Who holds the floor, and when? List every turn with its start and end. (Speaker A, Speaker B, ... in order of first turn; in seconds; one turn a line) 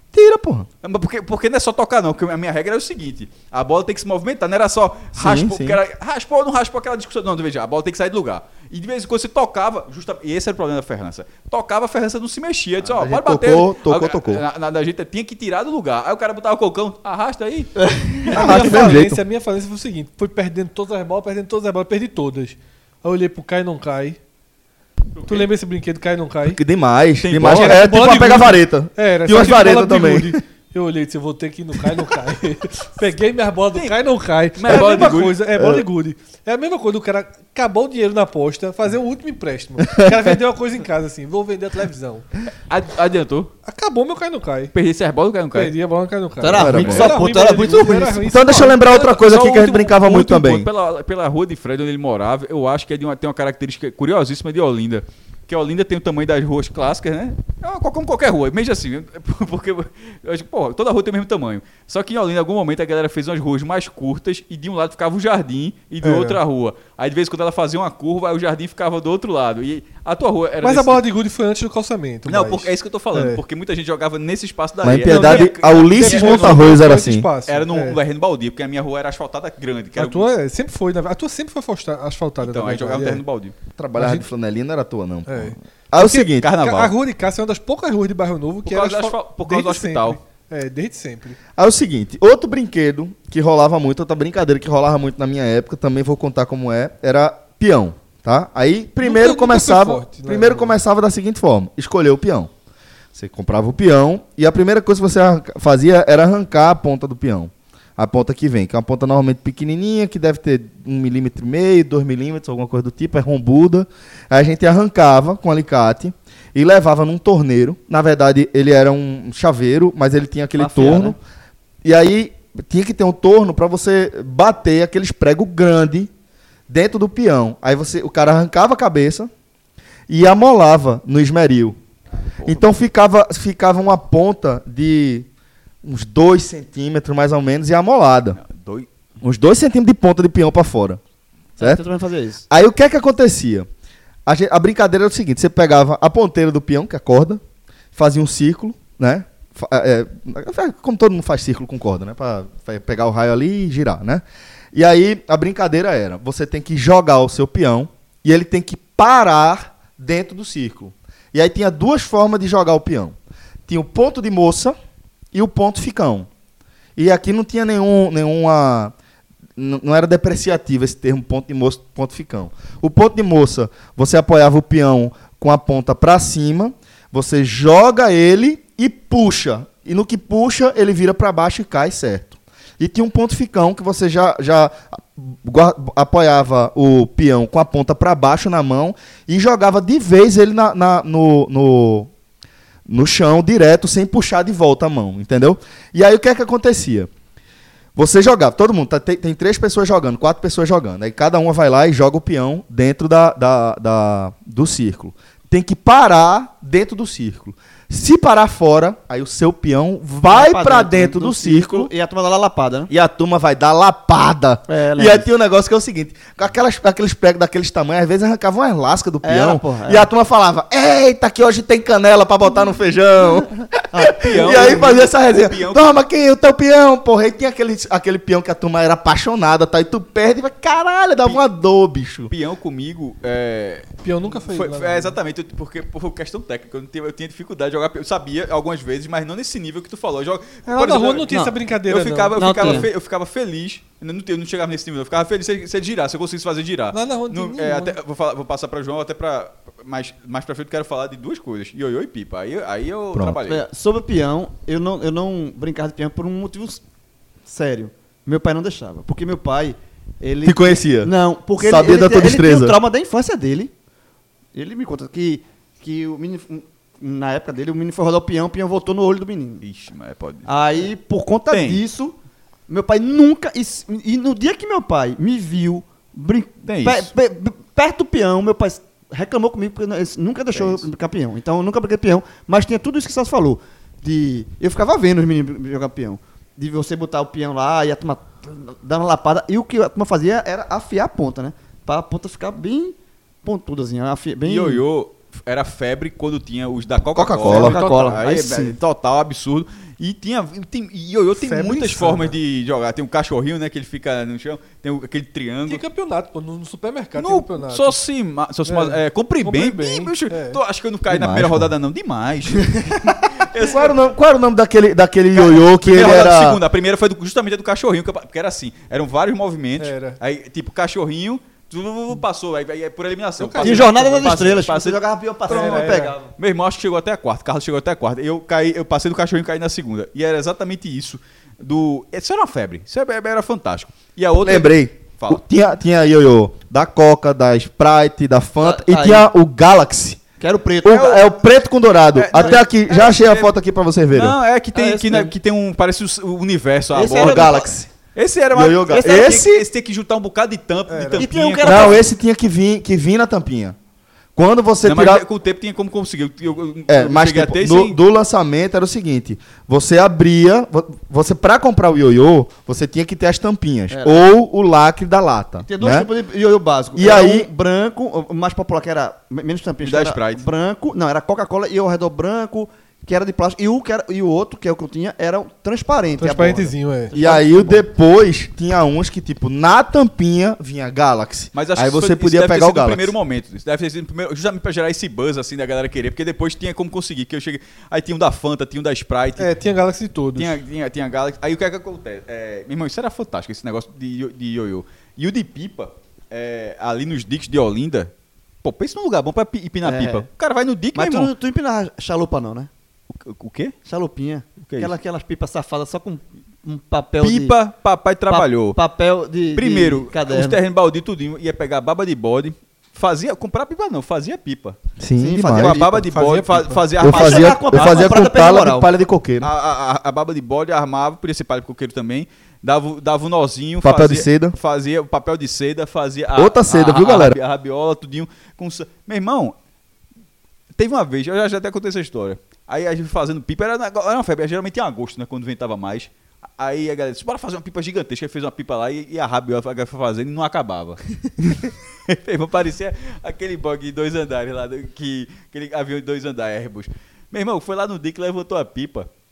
Speaker A: 0.1-0.7
Speaker B: 0.8-18.8
Speaker A: 5.2-5.8
Speaker A: 12.8-14.4
Speaker C: 17.8-18.6
Speaker D: 18.3-24.2
Speaker A: 18.3-19.2
Speaker B: 25.2-25.5
Speaker D: 25.3-26.6
Speaker A: 26.4-30.4
Speaker B: 27.2-27.9
Speaker D: 27.4-42.3
Speaker B: 34.6-35.4
Speaker A: 35.6-35.9
Speaker A: 39.8-40.4
Speaker B: 42.7-43.5
Speaker D: 43.7-44.7
Speaker B: 44.7-45.8
Speaker D: 45.5-49.2
Speaker C: 46.4-48.2
Speaker A: 46.5-47.1
Speaker B: 46.5-47.2
Speaker A: 48.2-50.7
Speaker B: 48.9-71.0
Speaker D: 66.0-66.4
Speaker D: 70.6-73.4
Speaker B: 72.3-76.9
Speaker A: 74.8-77.3
Speaker D: 75.0-78.0
Speaker B: 77.5-80.3
Speaker D: 80.0-83.2
Speaker B: 82.4-83.5
Speaker A: 83.8-86.5
Speaker D: 84.0-84.3
Speaker D: 85.3-91.4
Speaker B: 86.4-86.9
Speaker B: 88.7-90.2
Speaker A: 91.6-102.5
Speaker D: 99.0-100.8
Speaker A: 103.1-121.2
Speaker C: 120.6-121.2
Speaker A: 121.8-126.1
Speaker A: 126.7-129.3
Speaker A: 130.1-131.8
Speaker A: 132.4-135.3
Speaker A: 135.8-138.4
Speaker B: 138.4-138.9
Speaker A: 139.2-141.0
Speaker C: 141.6-142.4
Speaker A: 142.5-143.7
Speaker A: 144.3-147.4
Speaker A: 147.9-163.2
Speaker A: 163.7-164.8
Speaker A: 165.3-166.3
Speaker A: 167.0-168.9
Speaker A: 169.6-192.1
Speaker A: 192.9-197.1
Speaker A: 197.9-211.9
Speaker C: 210.3-212.9
Speaker A: 212.9-232.3
Speaker C: 214.7-215.3
Speaker C: 219.2-220.1
Speaker C: 223.9-225.0
Speaker B: 224.2-225.9
Speaker B: 232.3-253.7
Speaker D: 234.0-235.2
Speaker D: 240.7-242.9
Speaker C: 242.3-242.9
Speaker D: 246.9-248.0
Speaker C: 253.5-256.8
Speaker C: 257.5-263.7
Speaker A: 260.4-262.8
Speaker C: 264.5-269.6
Speaker B: 269.6-270.5
Speaker C: 270.5-272.2
Speaker B: 271.5-271.8
Speaker C: 272.7-294.8
Speaker B: 276.7-277.1
Speaker B: 280.5-280.9
Speaker B: 294.4-305.8
Speaker A: 297.2-297.8
Speaker C: 297.3-298.8
Speaker D: 297.6-298.2
Speaker D: 301.4-302.4
Speaker D: 305.7-308.0
Speaker B: 307.2-314.0
Speaker D: 308.6-310.6
Speaker A: 311.1-311.7
Speaker A: 313.6-316.6
Speaker B: 315.3-335.4
Speaker D: 319.8-320.2
Speaker D: 323.4-323.9
Speaker C: 323.6-326.3
Speaker D: 325.5-326.1
Speaker A: 334.4-340.2
Speaker C: 338.6-339.3
Speaker C: 340.4-341.2
Speaker A: 340.8-344.4
Speaker B: 340.9-341.2
Speaker B: 342.1-343.5
Speaker C: 342.3-342.6
Speaker B: 344.1-352.0
Speaker C: 344.8-345.3
Speaker C: 346.9-347.7
Speaker A: 347.0-347.9
Speaker A: 348.5-349.7
Speaker C: 348.9-349.4
Speaker D: 350.9-351.3
Speaker C: 351.2-352.0
Speaker A: 351.6-353.8
Speaker A: 354.4-355.3
Speaker B: 354.8-358.0
Speaker A: 356.9-366.1
Speaker C: 363.9-364.2
Speaker C: 365.6-377.8
Speaker A: 366.9-367.5
Speaker B: 369.8-370.5
Speaker D: 376.2-377.1
Speaker A: 377.1-383.1
Speaker B: 381.5-389.5
Speaker D: 389.4-390.6
Speaker B: 390.4-398.1
Speaker B: 398.6-401.3
Speaker C: 399.8-400.3
Speaker C: 400.9-402.7
Speaker B: 403.1-403.8
Speaker C: 403.9-407.6
Speaker B: 404.6-404.9
Speaker B: 407.2-408.8
Speaker C: 408.3-410.6
Speaker B: 409.5-414.8
Speaker A: 415.0-415.8
Speaker C: 415.2-416.1
Speaker B: 415.4-418.2
Speaker D: 416.1-416.8
Speaker A: 417.0-419.5
Speaker C: 417.0-418.9
Speaker B: 419.4-429.6
Speaker A: 423.8-424.6
Speaker A: 426.4-427.4
Speaker B: 430.8-449.1